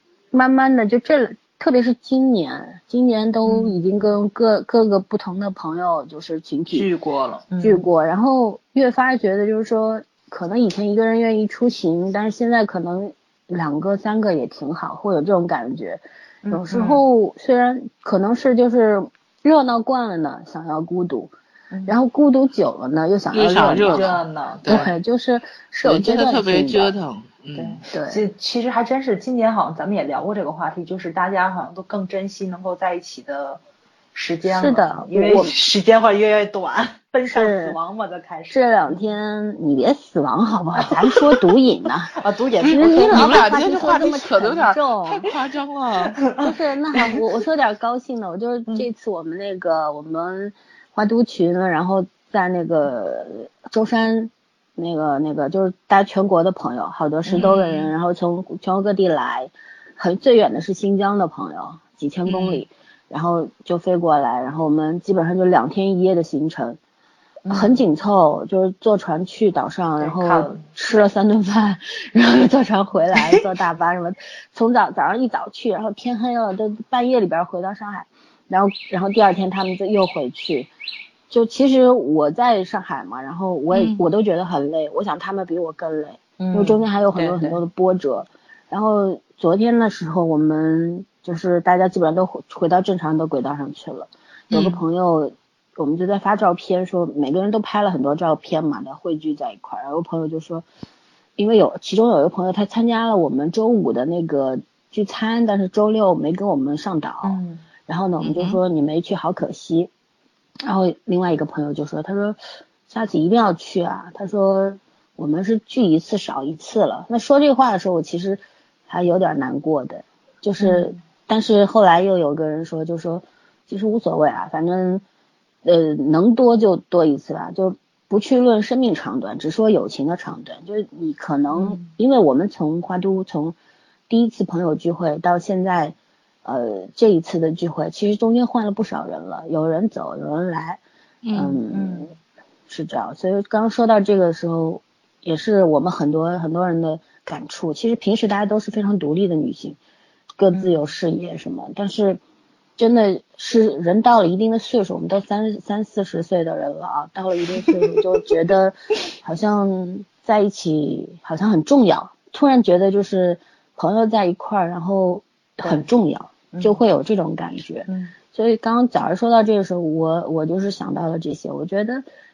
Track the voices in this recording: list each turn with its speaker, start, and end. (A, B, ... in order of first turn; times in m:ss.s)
0:00.3-0:06.9 A
0:03.4-0:03.8 B
0:06.7-0:07.8 B
0:07.6-0:21.3 A
0:16.4-0:17.0 B
0:21.8-0:24.1 A
0:23.3-0:24.9 C
0:23.9-0:24.8 B
0:24.6-0:26.9 A
0:25.8-0:27.8 C
0:27.5-0:33.6 B
0:27.9-0:28.2 A
0:34.1-0:39.0 B
0:34.4-0:35.5 A
0:37.2-0:37.8 A
0:38.5-0:45.2 A
0:40.9-0:41.4 B
0:42.2-0:43.5 B
0:42.7-0:46.2 C
0:46.1-0:47.2 B
0:46.4-1:06.8 A
0:57.2-0:57.8 B
0:57.4-0:57.6 C
1:02.3-1:02.6 C
1:07.4-1:07.8 B
1:07.5-1:20.7 A
1:10.0-1:10.6 B
1:21.3-1:40.6 A
1:23.7-1:24.0 C
1:26.4-1:27.6 B
1:34.5-1:34.8 C
1:41.4-1:49.9 A
1:47.2-1:47.6 B
1:48.2-1:48.6 C
1:50.6-1:52.4 A
1:52.9-2:05.0 A
2:00.6-2:00.9 B
2:05.6-2:13.5 A
2:11.5-2:11.8 B
2:14.1-2:20.8 A
2:21.2-2:21.6 C
2:21.3-2:22.1 A
2:21.7-2:22.1 B
2:22.7-2:29.8 A
2:30.4-2:32.2 A
2:30.5-2:30.9 B
2:32.8-2:52.0 A
2:46.5-2:46.8 B
2:47.9-2:48.1 B